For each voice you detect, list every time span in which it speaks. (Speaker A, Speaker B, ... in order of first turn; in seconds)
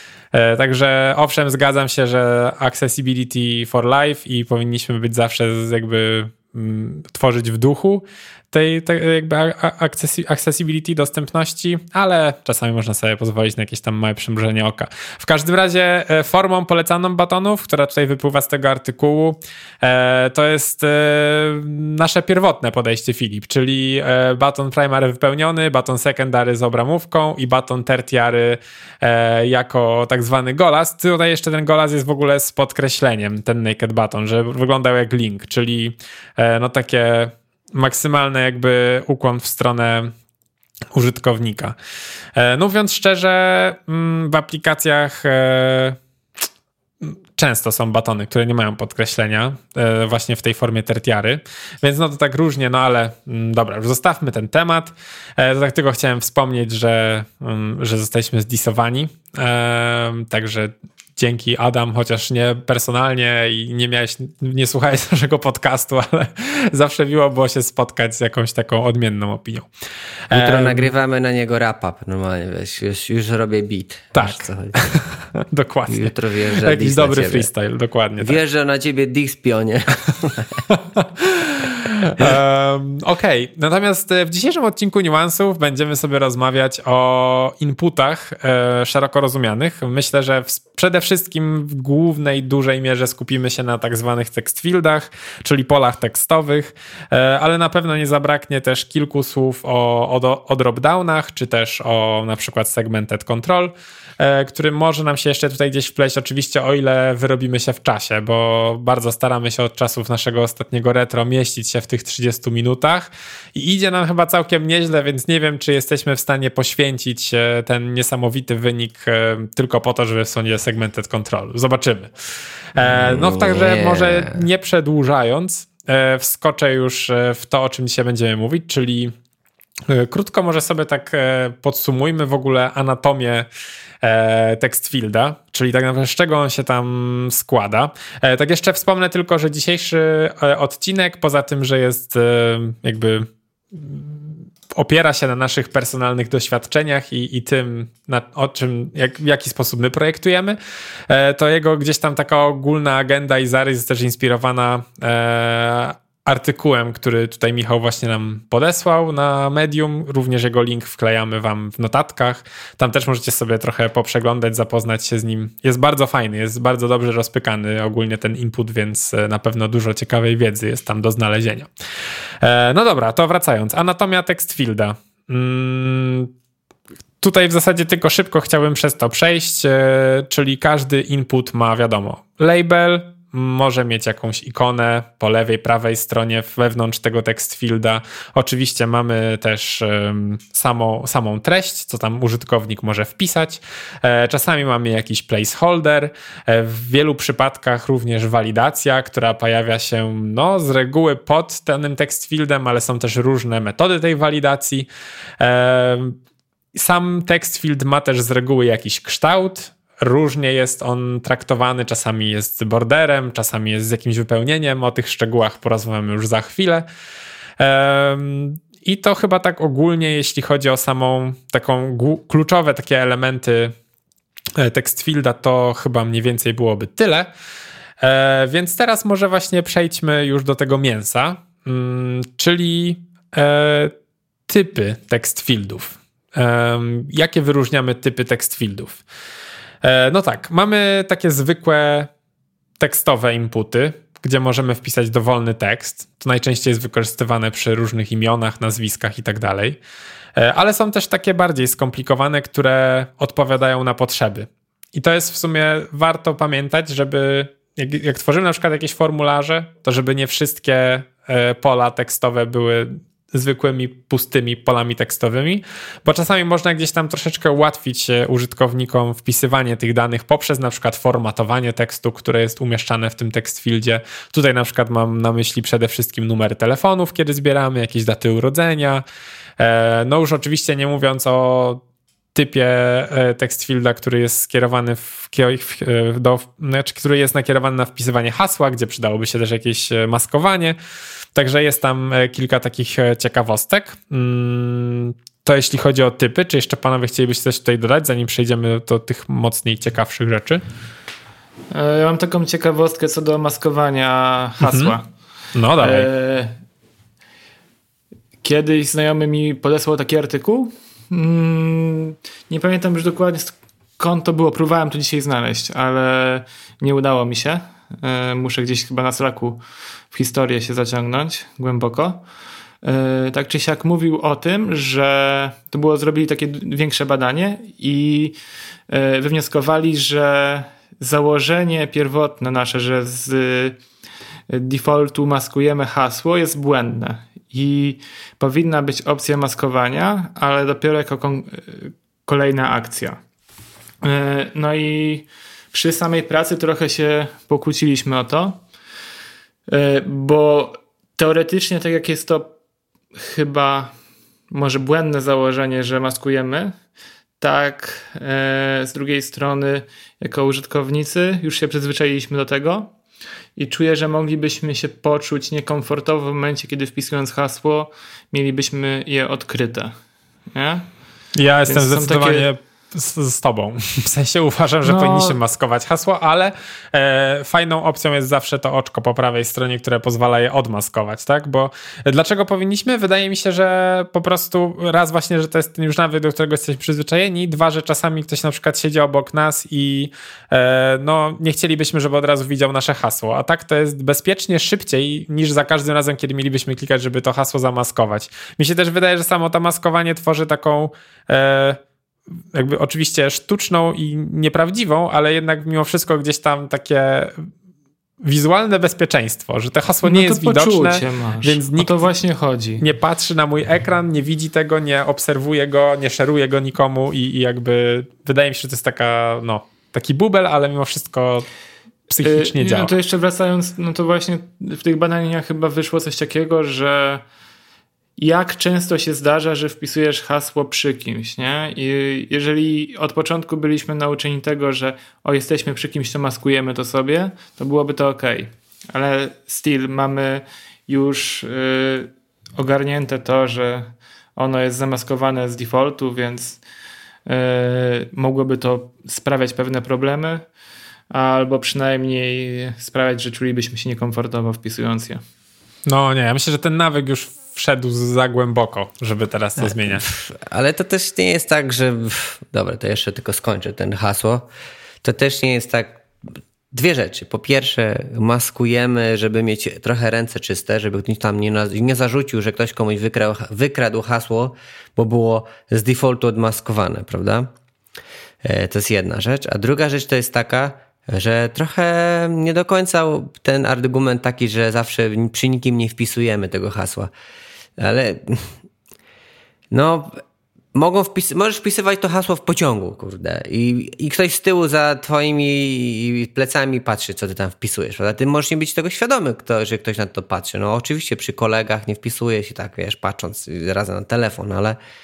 Speaker A: 0.3-40.1, 40.9-41.7, 42.4-46.0, 47.0-69.7, 70.3-70.9, 74.1-78.4, 80.7-122.1, 122.7-129.1, 129.9-133.5, 134.0-150.6, 151.1-171.7, 172.4-176.3, 177.2-204.9, 205.4-206.2, 206.7-216.8, 217.6-223.7, 224.6-227.3, 228.0-233.9, 234.5-239.0, 239.8-242.1, 242.8-249.8, 250.3-279.0, 279.6-281.8, 282.3-290.8, 291.3-300.6, 304.6-304.9, 305.5-306.1, 371.3-401.8, 402.5-407.5, 408.2-412.0, 412.8-421.4, 422.1-422.9, 455.9-460.0
Speaker B: 70.3-75.0, 75.9-77.5, 78.2-80.6, 122.8-124.5, 459.6-464.5, 465.0-466.0, 466.7-477.5, 478.4-487.1, 487.8-488.5, 489.7-490.2, 490.7-504.8
Speaker C: 301.7-305.1, 305.8-306.6, 308.4-322.2, 322.8-328.4, 328.9-333.8, 334.5-343.2, 344.0-348.6, 349.7-352.5, 353.1-353.9, 354.5-356.7, 357.4-362.9, 363.6-369.9, 370.5-370.9, 371.7-372.5, 374.8-375.4, 410.0-412.8, 422.2-427.2, 428.2-446.6, 447.2-450.4, 451.1-455.2